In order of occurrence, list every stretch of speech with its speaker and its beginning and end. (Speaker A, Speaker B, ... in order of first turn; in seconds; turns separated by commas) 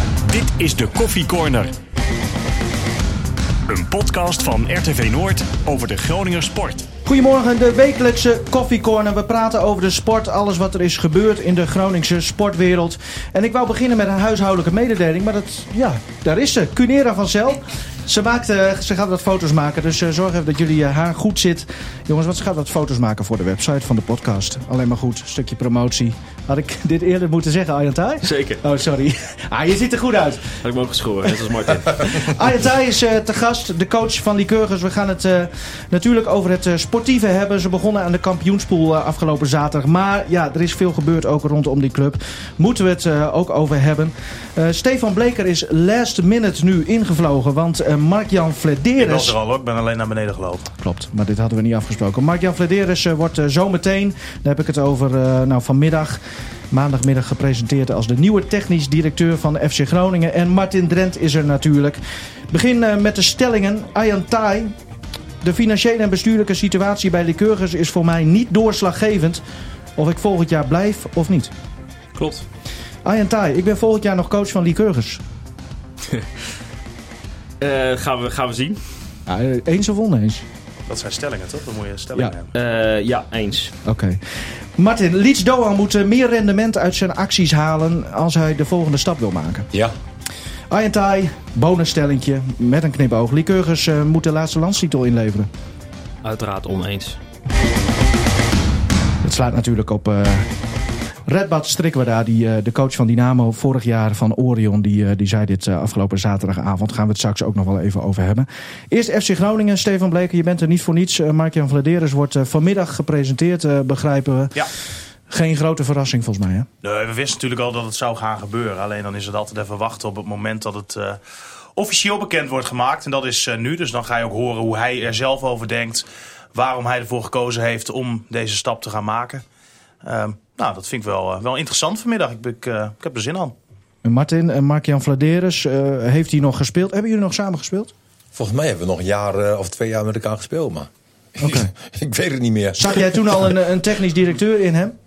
Speaker A: 0.3-1.7, Speaker A: 3.7-6.9, Speaker B: 7.0-30.6, Speaker C: 28.2-28.6, Speaker C: 30.6-32.3, Speaker B: 32.0-49.4, Speaker D: 49.0-50.7, Speaker B: 50.8-62.0, Speaker B: 62.5-64.7, Speaker B: 65.4-69.4, Speaker B: 70.0-71.5, Speaker C: 72.1-72.5, Speaker B: 73.0-75.2, Speaker C: 77.6-78.8, Speaker B: 79.3-80.4, Speaker D: 80.9-82.5, Speaker C: 82.5-83.7, Speaker B: 83.8-89.7, Speaker B: 90.7-95.5, Speaker C: 96.2-97.2, Speaker B: 99.2-100.5, Speaker B: 101.3-114.6, Speaker B: 115.3-116.7, Speaker D: 116.8-121.2, Speaker D: 121.8-129.4, Speaker D: 130.0-133.5, Speaker B: 134.0-137.9, Speaker E: 138.3-143.2, Speaker B: 141.4-141.7, Speaker B: 142.8-144.9